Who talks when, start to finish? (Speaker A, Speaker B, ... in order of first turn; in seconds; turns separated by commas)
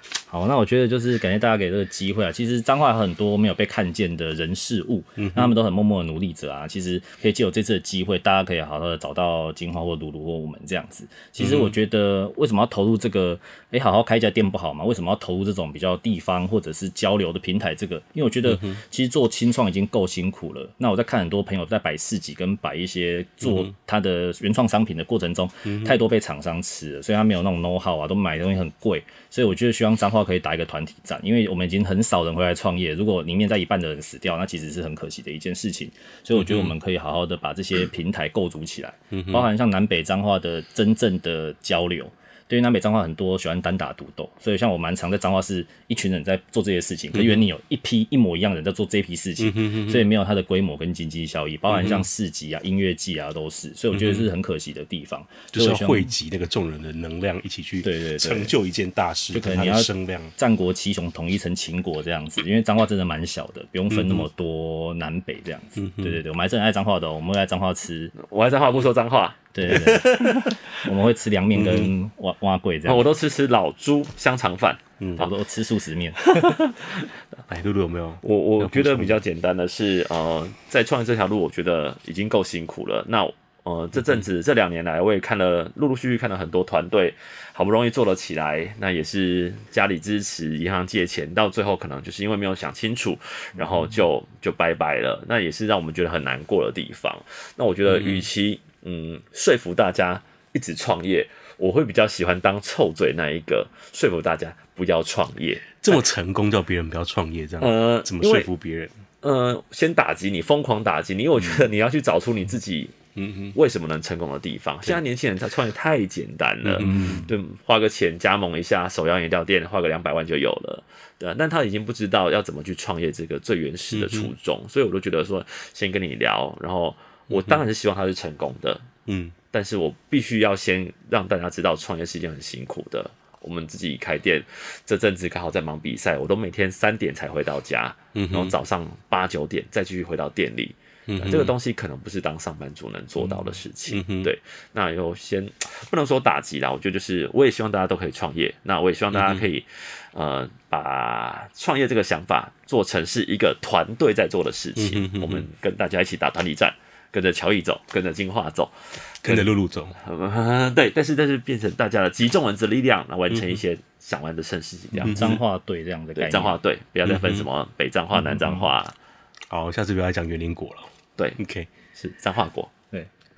Speaker A: 0.3-56.1, Speaker B: 5.2-5.5, Speaker B: 11.4-11.8, Speaker B: 18.5-18.8, Speaker B: 23.4-23.7, Speaker B: 25.7-25.9, Speaker B: 36.4-36.7, Speaker B: 39.1-39.5, Speaker B: 47.1-47.4, Speaker B: 49.4-50.1, Speaker B: 51.7-52.1, Speaker B: 53.9-54.3, Speaker B: 55.5-60.3, Speaker A: 57.8-58.5, Speaker A: 59.3-68.1, Speaker B: 63.9-64.3, Speaker B: 65.8-66.2, Speaker C: 68.2-70.6, Speaker A: 69.5-73.1, Speaker B: 69.7-70.1, Speaker B: 71.5-71.9, Speaker C: 72.9-75.3, Speaker B: 75.0-75.2, Speaker A: 75.2-76.2, Speaker C: 76.2-77.1, Speaker B: 77.5-79.2, Speaker C: 78.2-106.0, Speaker B: 97.9-98.3, Speaker B: 105.8-108.9, Speaker C: 107.6-108.5, Speaker C: 109.2-113.0, Speaker B: 113.2-113.6, Speaker C: 113.5-128.9, Speaker B: 116.6-117.3, Speaker A: 116.8-117.3, Speaker B: 123.9-124.3, Speaker B: 127.3-127.6, Speaker B: 129.1-129.4, Speaker C: 129.5-165.4, Speaker B: 138.2-138.6, Speaker B: 141.1-141.5, Speaker B: 143.2-144.3, Speaker B: 149.1-149.5, Speaker B: 154.8-155.5, Speaker B: 159.2-160.0, Speaker B: 163.3-163.6, Speaker B: 165.0-165.4, Speaker A: 165.0-166.6, Speaker C: 166.2-168.9, Speaker B: 167.1-167.5, Speaker A: 168.2-168.7, Speaker B: 169.5-171.7, Speaker C: 171.9-172.7